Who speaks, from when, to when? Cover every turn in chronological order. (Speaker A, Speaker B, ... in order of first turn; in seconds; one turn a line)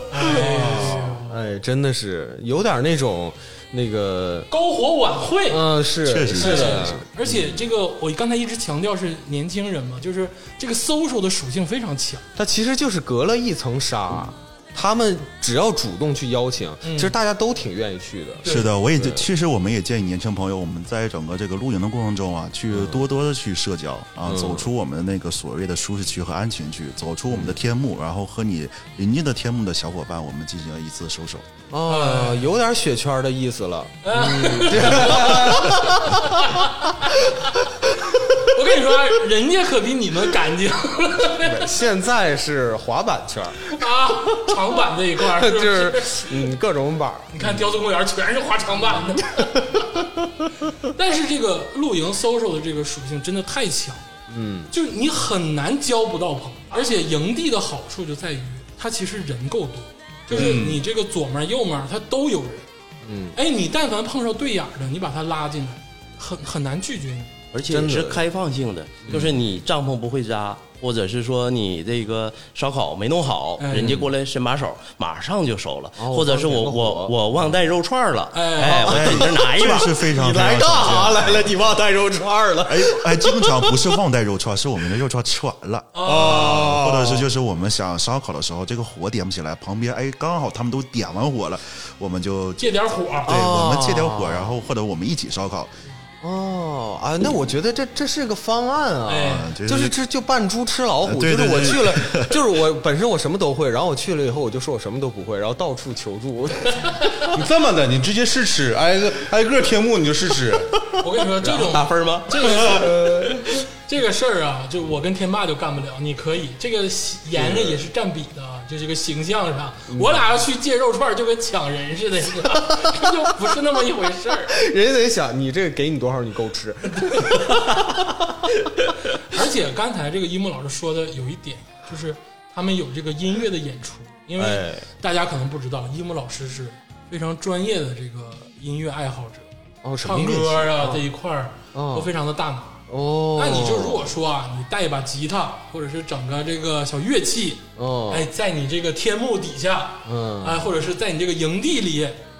Speaker A: 0.1-1.3
Speaker B: 0.2-4.5
Speaker C: 0.3-0.7
Speaker A: 4.5-5.7
Speaker B: 5.5-7.5
Speaker C: 6.0-7.0
Speaker A: 6.3-12.2
Speaker B: 12.3-19.2
Speaker A: 16.8-17.1
Speaker A: 18.4-18.7
Speaker C: 18.4-31.5
Speaker B: 22.7-23.0
Speaker B: 24.2-24.7
Speaker B: 31.7-37.3
Speaker A: 31.9-32.5
Speaker A: 34.0-37.4
Speaker A: 38.4-41.8
Speaker B: 41.4-43.8
Speaker A: 43.6-46.5
Speaker B: 45.2-47.7
Speaker A: 47.3-50.0
Speaker A: 50.9-54.1
Speaker B: 54.3-54.7
Speaker A: 54.7-62.7
Speaker B: 60.3-60.6
Speaker D: 60.3-60.8
Speaker B: 63.0-63.4
Speaker A: 63.3-67.3
Speaker E: 67.5-80.0
Speaker B: 67.7-68.2
Speaker B: 69.0-69.3
Speaker A: 73.6-74.0
Speaker B: 73.7-74.1
Speaker B: 76.0-77.1
Speaker A: 78.3-78.9
Speaker B: 78.6-84.0
Speaker C: 78.8-81.7
Speaker C: 82.7-95.7
Speaker A: 85.9-86.5
Speaker B: 86.0-87.3
Speaker A: 92.6-93.4
Speaker B: 93.3-94.5
Speaker B: 96.2-107.1
Speaker A: 99.0-99.5
Speaker C: 99.2-100.0
Speaker C: 101.0-102.6
Speaker D: 107.2-110.8
Speaker A: 111.0-124.6
Speaker E: 111.4-112.6
Speaker B: 112.5-113.5
Speaker B: 117.4-117.8
Speaker B: 119.9-120.2
Speaker B: 124.5-128.5
Speaker A: 127.0-127.5
Speaker A: 129.2-139.5
Speaker B: 134.4-134.9
Speaker B: 139.8-141.0
Speaker A: 140.0-152.2
Speaker B: 141.7-142.1
Speaker B: 142.9-144.1
Speaker B: 147.8-148.3
Speaker B: 150.1-150.7